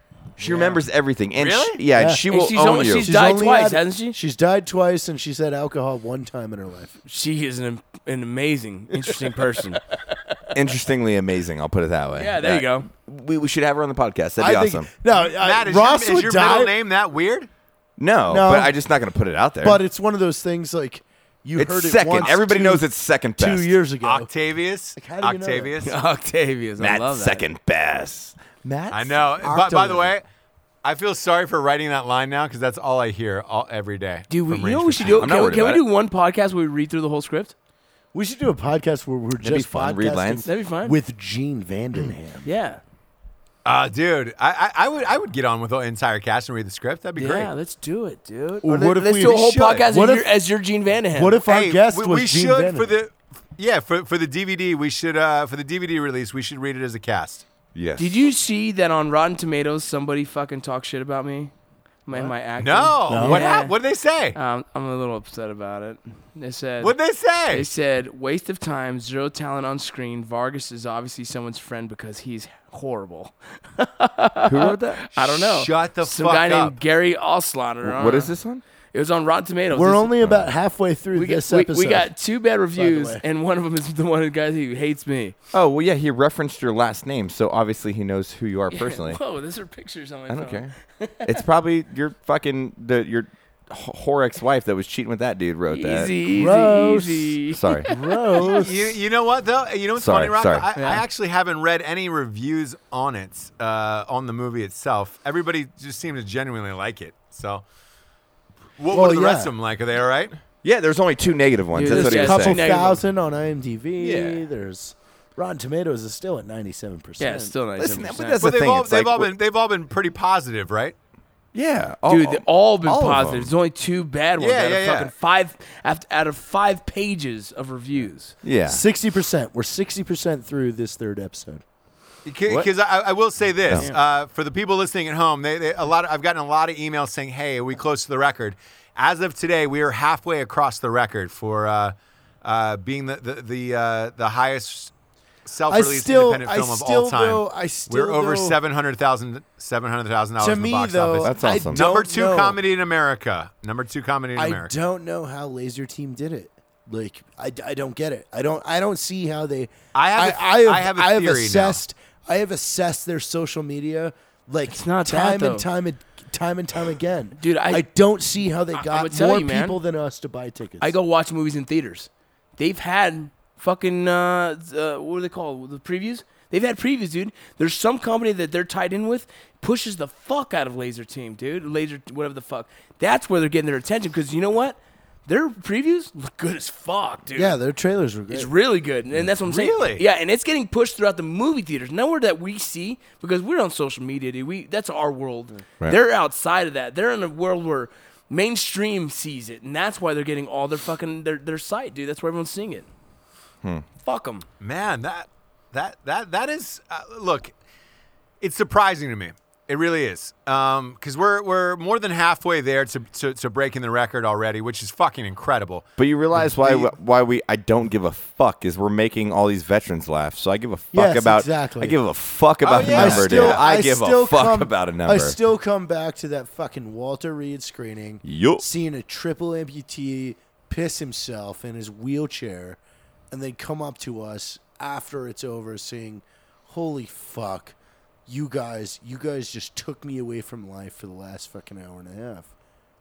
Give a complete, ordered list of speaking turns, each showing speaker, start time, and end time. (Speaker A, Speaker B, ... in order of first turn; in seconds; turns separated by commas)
Speaker A: 0.4-3.1, Speaker B: 0.4-0.8, Speaker C: 1.4-1.8, Speaker B: 1.9-2.2, Speaker D: 2.3-4.2, Speaker B: 3.0-7.0, Speaker D: 7.0-10.3, Speaker B: 8.9-9.3, Speaker A: 10.5-14.9, Speaker D: 12.1-12.9, Speaker B: 14.4-16.7, Speaker C: 15.1-17.5, Speaker A: 18.0-19.8, Speaker B: 18.3-18.7, Speaker B: 19.6-24.3, Speaker A: 21.6-23.7, Speaker C: 24.0-25.9, Speaker B: 24.9-25.7, Speaker D: 25.8-27.4, Speaker A: 26.8-29.4, Speaker C: 28.9-30.2, Speaker B: 29.4-30.1, Speaker C: 30.8-35.2, Speaker D: 34.3-37.5, Speaker A: 35.0-35.8, Speaker B: 38.1-42.5, Speaker A: 39.4-40.5, Speaker D: 40.4-41.0, Speaker D: 42.4-42.8, Speaker C: 43.6-47.5, Speaker D: 47.1-51.4, Speaker B: 48.6-50.3, Speaker C: 49.1-49.8, Speaker B: 51.1-52.9, Speaker C: 51.5-57.4, Speaker A: 57.7-58.1, Speaker D: 58.0-61.5, Speaker D: 62.0-63.7, Speaker C: 62.6-64.4, Speaker B: 63.1-63.4, Speaker D: 64.3-66.9, Speaker C: 66.8-67.7, Speaker D: 67.5-78.3, Speaker A: 74.4-75.0, Speaker C: 75.1-76.7, Speaker A: 77.8-78.6, Speaker D: 78.9-80.2, Speaker B: 79.7-82.1, Speaker A: 80.2-80.5, Speaker D: 81.1-85.3, Speaker B: 82.8-83.2, Speaker A: 85.5-89.2, Speaker D: 88.7-91.3, Speaker A: 90.3-90.7, Speaker A: 91.2-96.1, Speaker D: 95.7-98.1, Speaker B: 96.3-98.9, Speaker A: 97.5-97.9, Speaker C: 98.4-107.6, Speaker A: 100.0-100.7, Speaker D: 100.7-101.0, Speaker C: 108.8-110.3, Speaker B: 108.9-109.5, Speaker A: 110.6-112.6, Speaker D: 111.7-113.0, Speaker B: 111.8-117.5, Speaker A: 114.0-114.5, Speaker D: 117.2-118.4, Speaker A: 117.8-119.3, Speaker C: 118.4-121.0, Speaker A: 121.5-123.5, Speaker D: 122.1-128.3, Speaker C: 124.4-125.1, Speaker A: 128.4-128.8, Speaker B: 128.7-131.6, Speaker C: 132.2-144.9, Speaker C: 145.4-154.7, Speaker B: 145.7-148.6, Speaker B: 150.4-152.6, Speaker A: 151.2-151.8, Speaker B: 154.3-170.9, Speaker C: 159.9-161.8, Speaker D: 164.7-165.7, Speaker D: 167.4-167.8, Speaker D: 168.8-169.8, Speaker D: 170.8-187.6, Speaker B: 187.3-188.5, Speaker D: 188.3-202.9, Speaker C: 189.4-190.0, Speaker D: 204.0-204.4, Speaker C: 204.6-207.5, Speaker C: 208.4-215.8, Speaker A: 216.0-225.4, Speaker B: 220.9-222.0, Speaker C: 222.6-223.6, Speaker B: 222.9-232.8, Speaker A: 228.2-228.6, Speaker B: 233.3-237.8, Speaker B: 238.3-242.5